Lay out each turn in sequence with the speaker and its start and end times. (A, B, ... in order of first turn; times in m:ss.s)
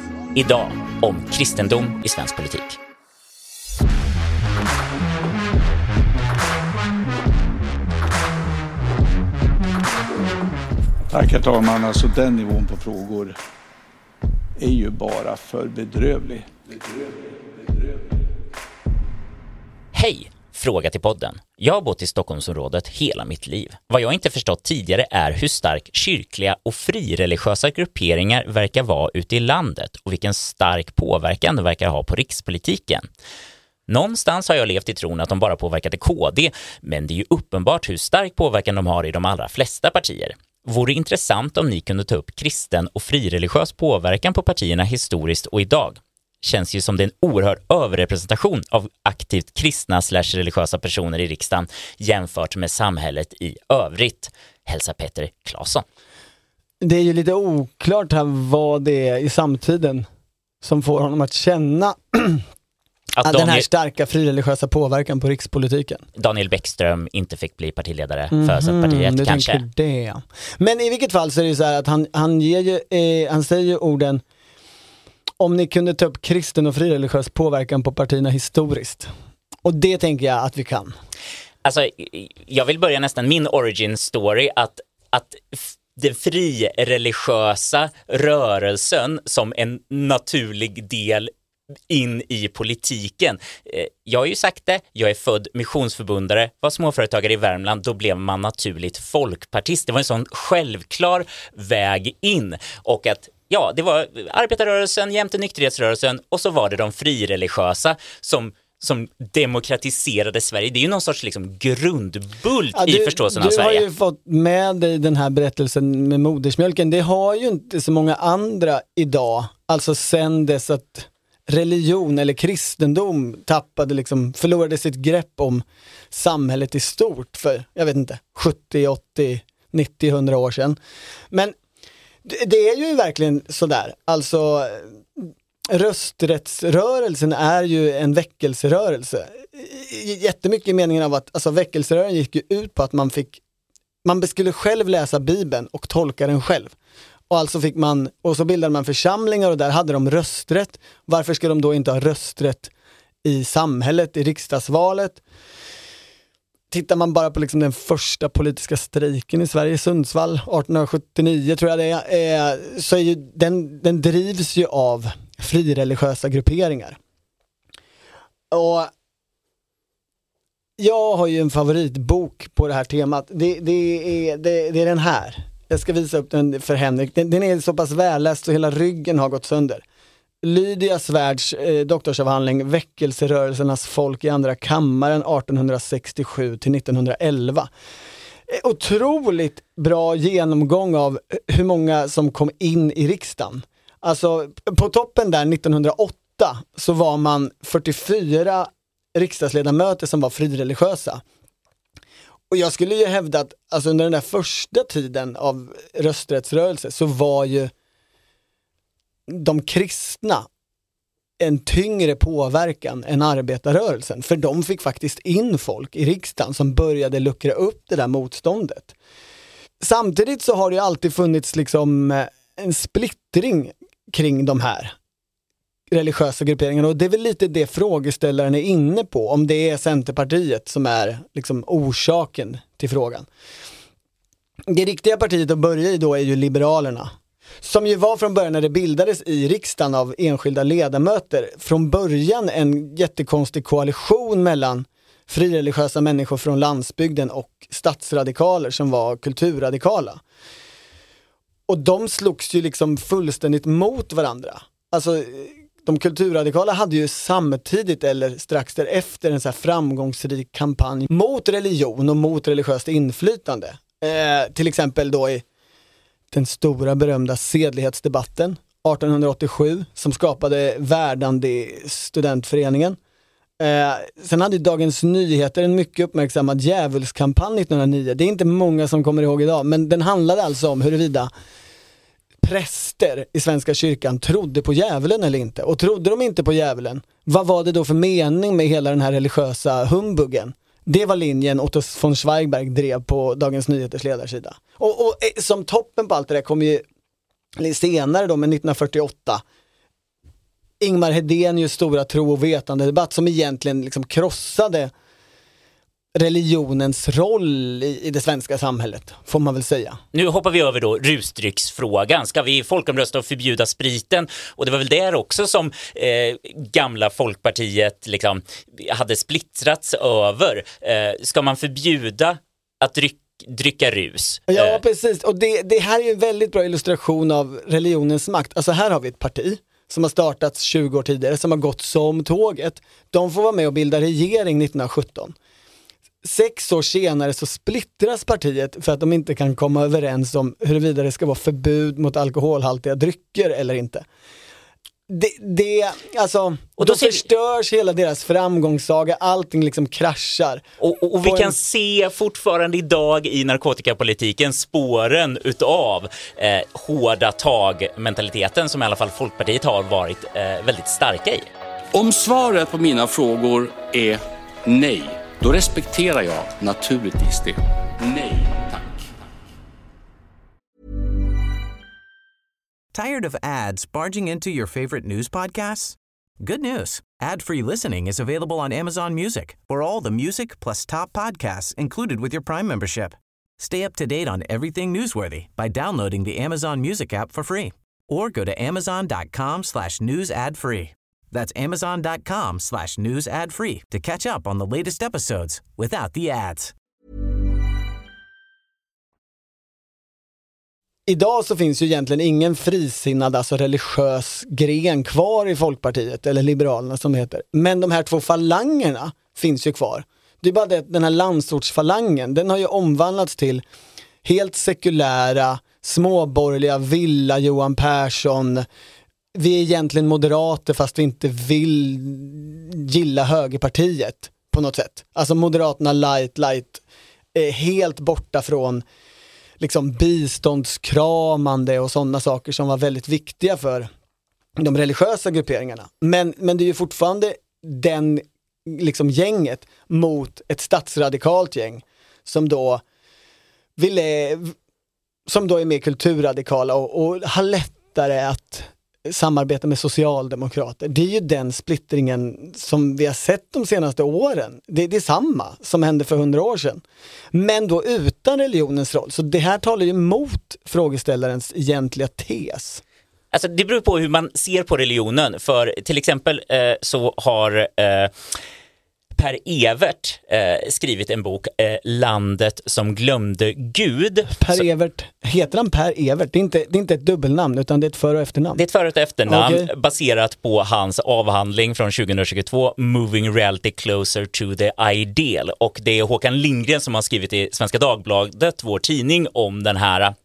0:00.4-0:02.8 A
0:11.1-0:13.3 B
0:14.6-0:16.4 B
0:19.9-0:33.1 A
0:33.9-0:55.8 A
0:56.8-1:00.0 C
1:00.6-1:02.4 C
1:03.2-1:03.6 A
1:03.2-1:06.0 C
1:06.2-1:09.6 A
1:08.3-1:14.2 C
1:15.4-1:19.1 C
1:19.6-1:20.9 C
1:21.6-1:31.3 A
1:31.9-1:53.8 A
1:52.7-2:10.8 C
2:12.2-2:23.4 C
2:24.0-2:26.7 C
2:27.3-2:32.7 C
2:33.2-2:35.2 C
2:36.7-2:47.0 C
2:48.5-2:48.9 C
2:50.8-2:59.8 C
3:00.4-3:07.7 C
3:08.5-3:21.2 C
3:22.5-3:27.7 C
3:29.3-3:30.5 C
3:31.4-3:38.9 C
3:39.8-3:44.9 C
3:45.9-3:53.3 C
3:54.7-3:57.1 C
3:57.6-4:10.2 C
4:11.7-4:25.4 C
4:26.3-4:33.0 C
4:33.6-4:41.3 C
4:42.4-4:56.8 C
4:57.6-4:59.4 C
5:00.8-5:04.9 C
5:06.2-5:10.0 C
5:10.1-5:24.8 A
5:24.5-5:35.3 C
5:36.2-5:44.0 C
5:45.1-5:50.6 C
5:46.8-5:47.2 A
5:50.8-6:01.5 A
5:51.2-5:51.6 C
6:01.9-6:09.0 D
6:12.9-6:36.7 E
6:41.1-6:53.6 C
6:54.2-6:58.6 C
6:59.4-7:06.8 C
7:07.4-7:08.8 C
7:09.6-7:13.9 C
7:14.6-7:22.8 C
7:23.8-7:24.5 C
7:25.3-7:36.8 C
7:37.3-7:42.8 C
7:43.3-7:48.1 A
7:49.2-7:54.7 A
7:54.4-7:58.6 C
7:58.6-8:10.1 A
7:59.3-7:59.7 C